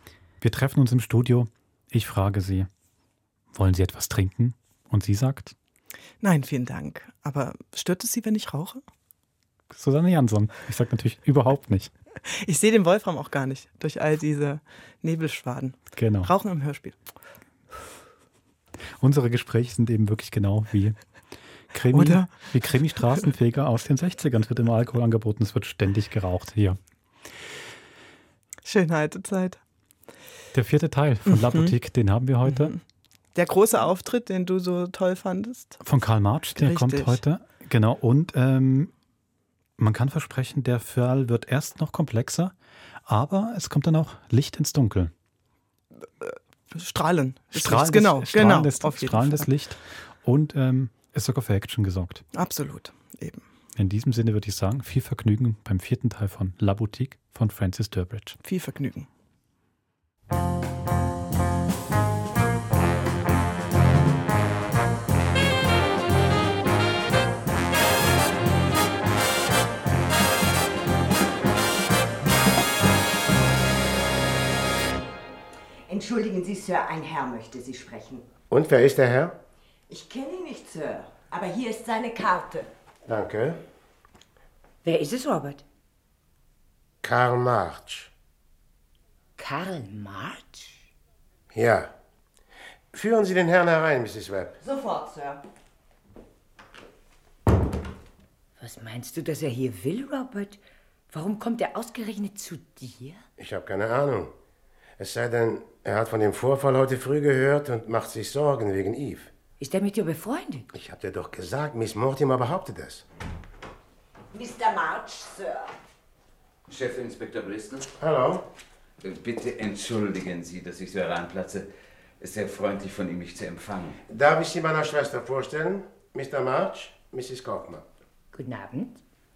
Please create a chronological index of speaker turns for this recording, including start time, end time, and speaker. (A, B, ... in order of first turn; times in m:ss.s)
0:00.4-0:02.7 A
0:03.5-0:05.5 A
0:06.2-0:08.8 B
0:09.7-0:11.9 A
0:12.4-0:17.0 B
0:15.9-0:16.3 A
0:19.0-0:21.0 A
0:21.7-0:26.8 A
0:21.9-0:23.2 B
0:28.6-0:29.6 B
0:30.5-0:32.7 A
0:31.2-0:31.8 B
0:32.4-0:32.8 B
0:33.3-0:35.8 B
0:35.8-0:38.9 A
0:36.5-0:37.2 B
0:39.8-0:42.5 A
0:43.0-0:45.1 A
0:46.2-0:49.5 B
0:47.5-0:52.2 A
0:52.3-0:53.4 B
0:53.8-0:58.4 A
0:58.4-0:59.1 B
1:15.9-1:18.2 C
1:18.5-1:19.4 D
1:19.9-1:22.7 C
1:23.0-1:23.6 D
1:24.8-1:25.6 E
1:27.0-1:28.1 D
1:29.4-1:30.8 E
1:31.5-1:31.9 D
1:32.9-1:34.6 D
1:34.6-1:35.4 C
1:38.6-1:40.6 E
1:41.1-1:43.2 E
1:43.4-1:44.3 D
1:45.0-1:49.3 D
1:49.6-1:50.6 E
1:50.7-1:53.0 D
1:54.3-1:55.7 C
1:56.7-1:57.9 F
1:58.0-1:58.4 D
1:59.0-2:01.7 F
2:02.2-2:04.0 F
2:04.1-2:07.8 D
2:08.3-2:09.0 E